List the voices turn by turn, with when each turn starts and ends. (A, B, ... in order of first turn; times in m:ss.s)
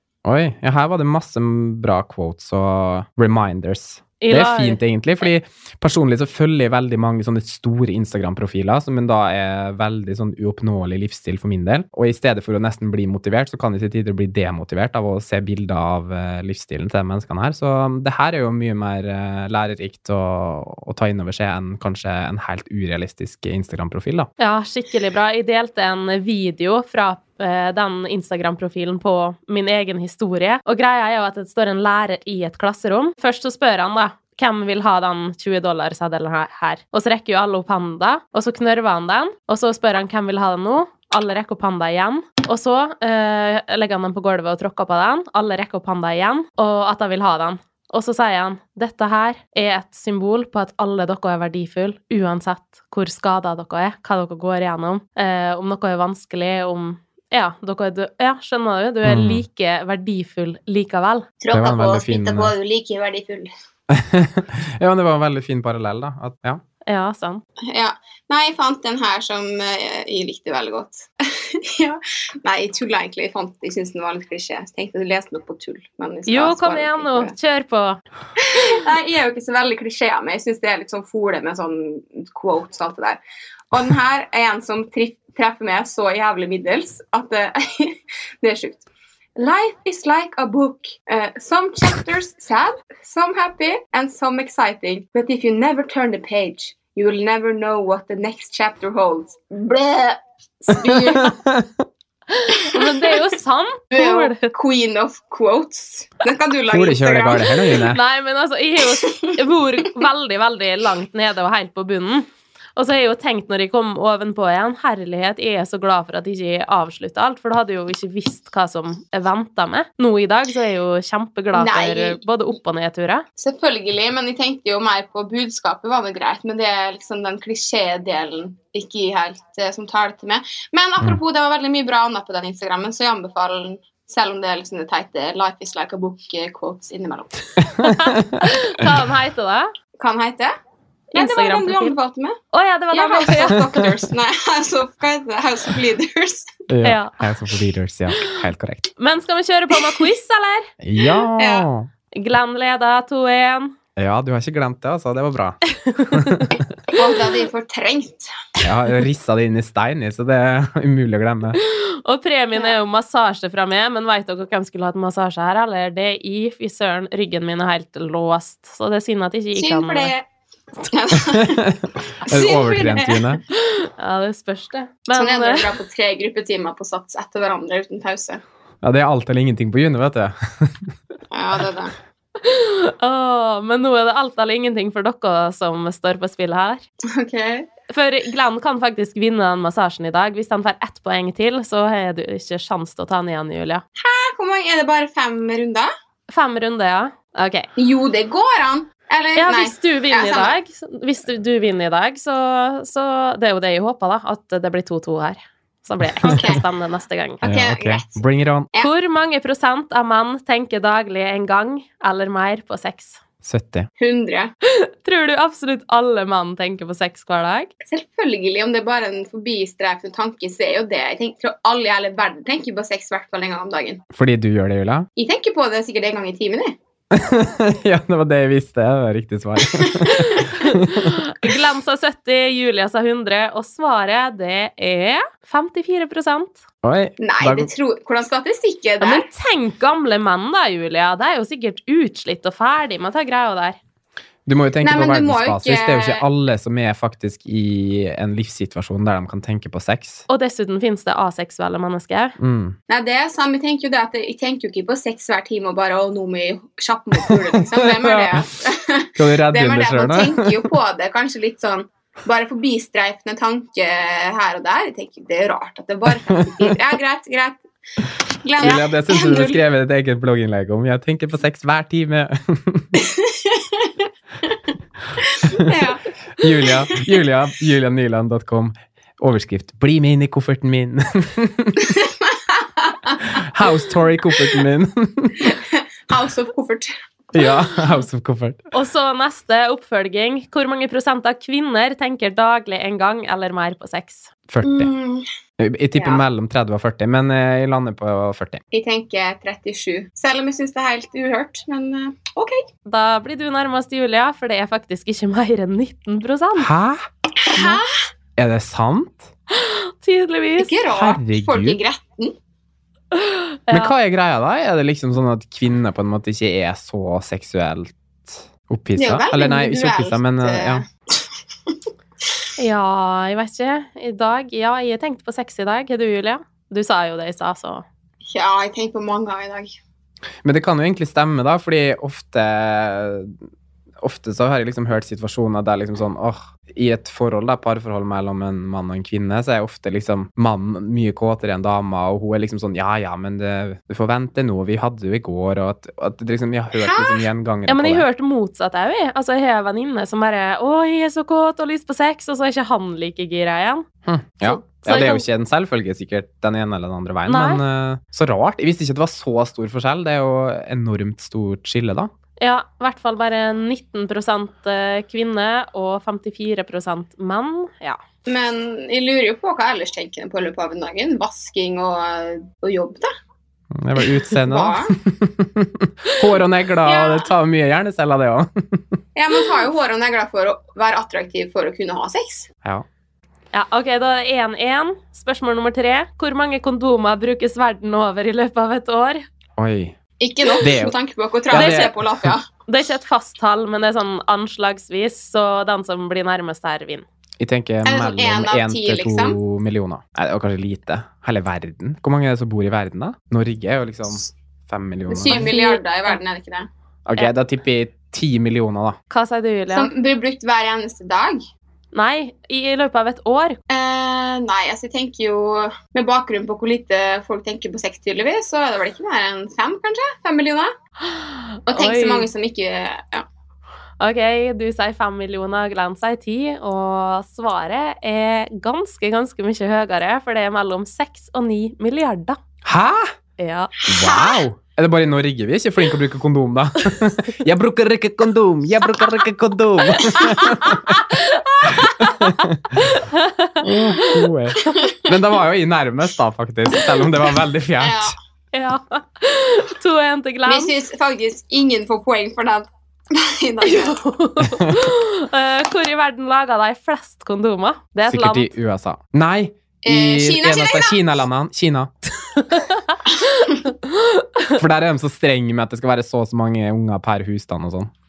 0:00.2-0:24.3 A
0:04.2-0:04.8 B
0:24.4-1:01.3 B
0:59.0-0:59.4 A
1:01.4-1:03.5 C
1:01.5-1:02.5 A
1:03.9-1:06.6 A
1:06.9-1:07.4 B
1:07.7-1:17.3 C
1:16.3-1:18.0 B
1:18.4-1:23.2 C
1:23.7-1:28.8 C
1:29.4-1:41.3 C
1:40.8-1:41.8 A
1:42.3-1:44.5 B
1:42.6-1:43.3 C
1:43.9-1:47.5 C
1:46.7-1:48.0 A
1:47.8-2:03.2 B
1:49.0-1:49.3 C
2:01.5-2:02.2 C
2:03.4-2:17.4 C
2:17.8-2:18.9 A
2:17.8-2:19.7 B
2:20.0-2:20.5 C
2:21.1-2:21.9 B
2:21.2-2:22.4 C
2:22.5-2:23.7 B
2:22.9-2:26.6 C
2:26.7-2:28.9 A
2:26.8-2:27.2 B
2:29.0-2:30.7 B
2:30.8-2:31.9 A
2:31.4-2:31.7 C
2:32.1-2:33.8 B
2:34.0-2:36.6 A
2:35.8-2:36.6 B
2:36.9-2:38.3 C
2:38.6-2:41.6 A
2:41.6-2:50.1 B
2:49.6-2:50.2 C
2:50.9-2:51.6 C
2:51.1-2:53.4 A
2:52.3-2:53.2 C
2:53.6-2:55.7 B
2:55.1-2:58.4 C
2:58.8-3:01.0 A
3:01.3-3:01.9 C
3:02.4-3:06.8 B
3:07.0-3:07.7 C
3:07.9-3:13.8 B
3:14.0-3:15.9 C
3:16.3-3:17.7 B
3:17.8-3:20.6 C
3:19.4-3:27.4 B
3:26.2-3:26.5 A
3:26.2-3:26.6 C
3:27.4-3:28.2 C
3:27.4-3:28.7 A
3:28.8-3:33.2 B
3:33.4-3:33.9 A
3:34.0-3:34.5 C
3:34.6-3:37.7 B
3:37.9-3:44.0 C
3:44.1-3:45.1 A
3:45.2-3:46.7 C
3:47.1-3:51.2 A
3:49.7-3:50.1 C
3:50.0-3:56.6 B
3:56.8-3:57.7 A
3:57.2-3:59.3 C
3:59.0-4:03.8 B
4:04.4-4:10.2 A
4:04.8-4:06.2 C
4:10.3-4:12.4 B
4:12.4-4:12.8 A
4:12.9-4:27.6 C
4:17.2-4:18.5 A
4:19.2-4:20.7 A
4:26.1-4:26.8 A
4:28.4-4:29.6 C
4:28.6-4:33.0 A
4:33.0-4:33.9 C
4:35.2-4:36.1 C
4:35.4-4:35.8 A
4:36.4-4:41.9 A
4:36.6-4:37.2 C
4:41.9-4:43.2 C
4:43.3-4:45.6 A
4:45.4-4:46.9 C
4:47.3-4:48.6 A
4:48.7-4:54.3 B
4:54.5-4:54.9 A
4:54.6-4:55.2 C
4:55.6-4:58.6 A
4:56.0-4:56.2 C
4:58.7-5:02.6 C
5:02.9-5:06.7 B
5:06.6-5:07.8 A
5:07.4-5:08.0 C
5:08.4-5:09.3 A
5:09.5-5:10.8 B
5:10.6-5:12.3 C
5:10.9-5:11.8 A
5:13.1-5:13.9 B
5:13.7-5:20.8 A
5:19.0-5:21.7 C
5:22.6-5:27.8 B
5:28.3-5:29.8 C
5:30.4-5:33.4 A
5:34.0-5:48.0 A
5:46.8-5:47.3 C
5:47.7-5:53.8 B
5:54.0-6:02.1 A
5:54.4-5:55.2 B
5:57.3-5:57.6 B
6:02.4-6:08.0 B
6:08.3-6:13.1 C
6:13.7-6:19.0 A
6:14.0-6:14.9 C
6:16.8-6:17.3 C
6:19.1-6:22.5 C
6:23.5-6:29.2 B
6:29.6-6:30.0 A
6:30.2-6:32.4 C
6:30.6-6:30.9 A
6:31.5-6:32.3 A
6:31.5-6:31.9 B
6:32.6-6:37.0 B
6:37.4-6:45.5 A
6:37.8-6:39.4 C
6:45.1-6:46.7 C
6:45.3-6:46.2 B
6:47.0-6:49.0 A
6:49.1-6:49.9 B
6:49.7-6:51.4 C
6:51.9-6:53.6 B
6:53.7-7:00.7 C
7:01.0-7:02.3 B
7:01.7-7:03.2 C
7:04.0-7:12.4 B
7:12.6-7:13.1 A
7:13.4-7:13.7 B
7:13.9-7:21.0 A
7:13.9-7:14.4 C
7:20.1-7:24.2 B
7:21.6-7:23.0 A
7:23.6-7:28.2 A
7:24.6-7:25.1 C
7:27.8-7:28.2 C
7:28.5-7:30.7 B
7:30.5-7:34.0 C
7:33.6-7:38.5 B
7:38.1-7:41.9 A
7:39.8-7:41.1 C
7:42.4-7:43.0 B
7:43.2-7:43.6 C
7:43.7-7:44.6 B
7:44.6-7:47.9 A